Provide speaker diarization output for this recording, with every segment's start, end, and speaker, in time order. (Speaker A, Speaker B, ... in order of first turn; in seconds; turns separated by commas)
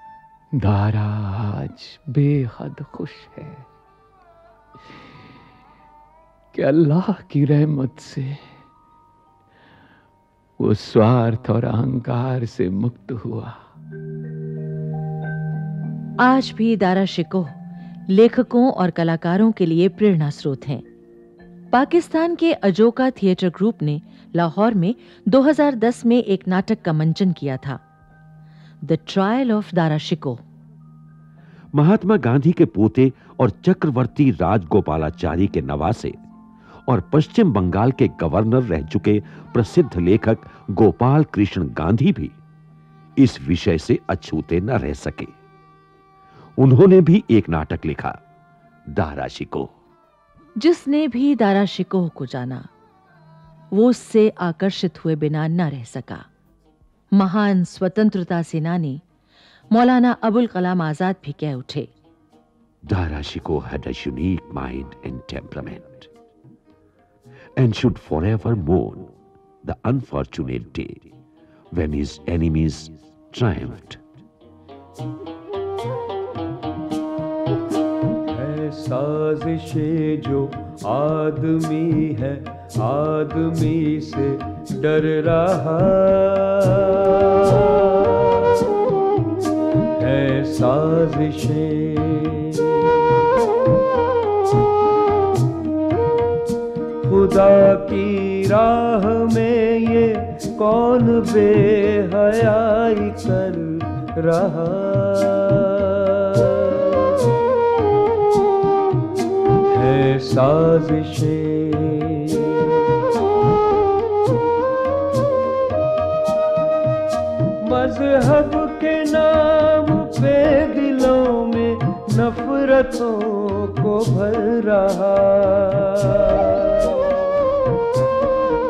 Speaker A: 0.5-3.6, Speaker A: 6.5-8.5, Speaker A: 10.6-13.6, Speaker B: 16.2-17.6, Speaker B: 18.1-20.8, Speaker B: 21.7-27.8, Speaker B: 28.8-30.4, Speaker C: 31.7-36.1, Speaker C: 36.9-42.3, Speaker C: 43.2-45.3, Speaker C: 46.6-48.2, Speaker C: 48.9-49.7, Speaker B: 50.6-52.7, Speaker B: 53.7-56.3, Speaker B: 57.1-59.0, Speaker B: 59.7-61.9, Speaker C: 62.9-66.1, Speaker C: 67.6-69.1, Speaker C: 69.6-71.0, Speaker C: 71.7-74.0, Speaker D: 78.3-88.3, Speaker D: 90.0-92.8, Speaker D: 97.0-106.7, Speaker D: 109.7-112.5, Speaker D: 117.6-127.0